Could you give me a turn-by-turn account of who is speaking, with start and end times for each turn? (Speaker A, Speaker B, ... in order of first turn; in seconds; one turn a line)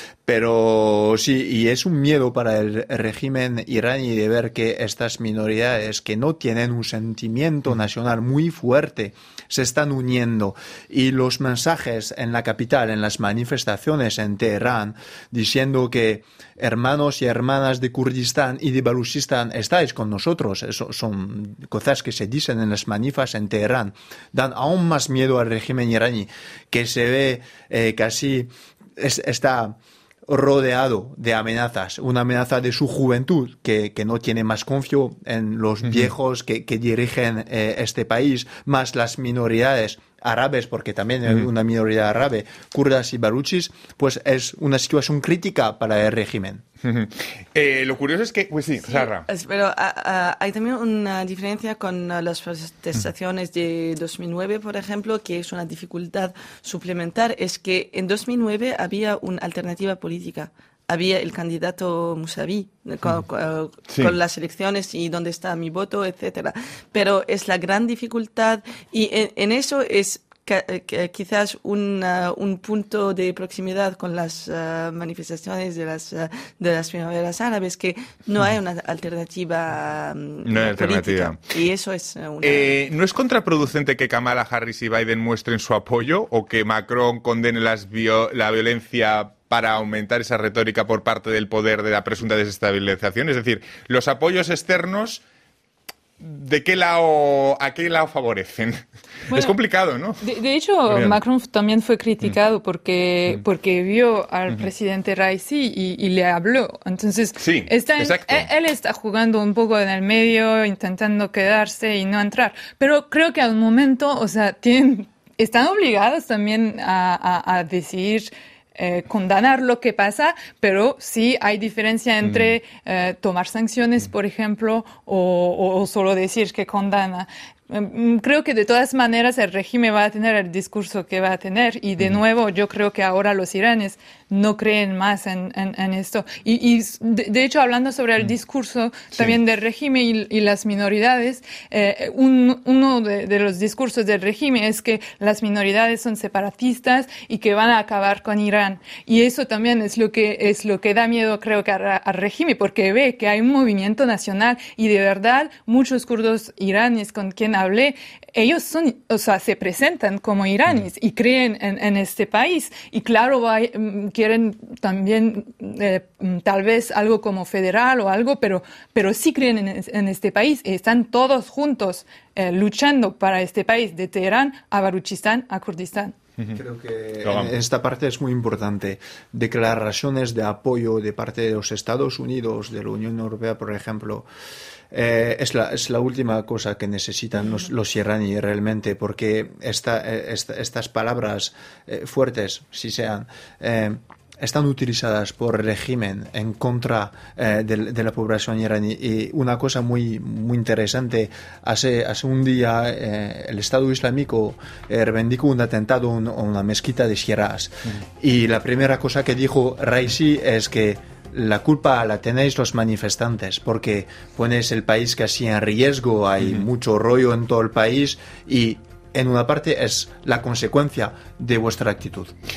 Speaker A: 0.2-46.6
Speaker B: 35.9-36.1
Speaker B: 46.8-49.2
Speaker C: 48.8-82.7
Speaker B: 63.9-64.2
Speaker B: 80.4-81.4
Speaker B: 82.4-95.2
Speaker B: 96.2-100.2
Speaker D: 99.3-99.5
Speaker D: 100.2-176.1
Speaker B: 100.9-101.2
Speaker B: 107.4-108.5
Speaker B: 122.2-122.5
Speaker A: 176.5-184.3
Speaker B: 177.2-177.5
Speaker A: 184.9-222.3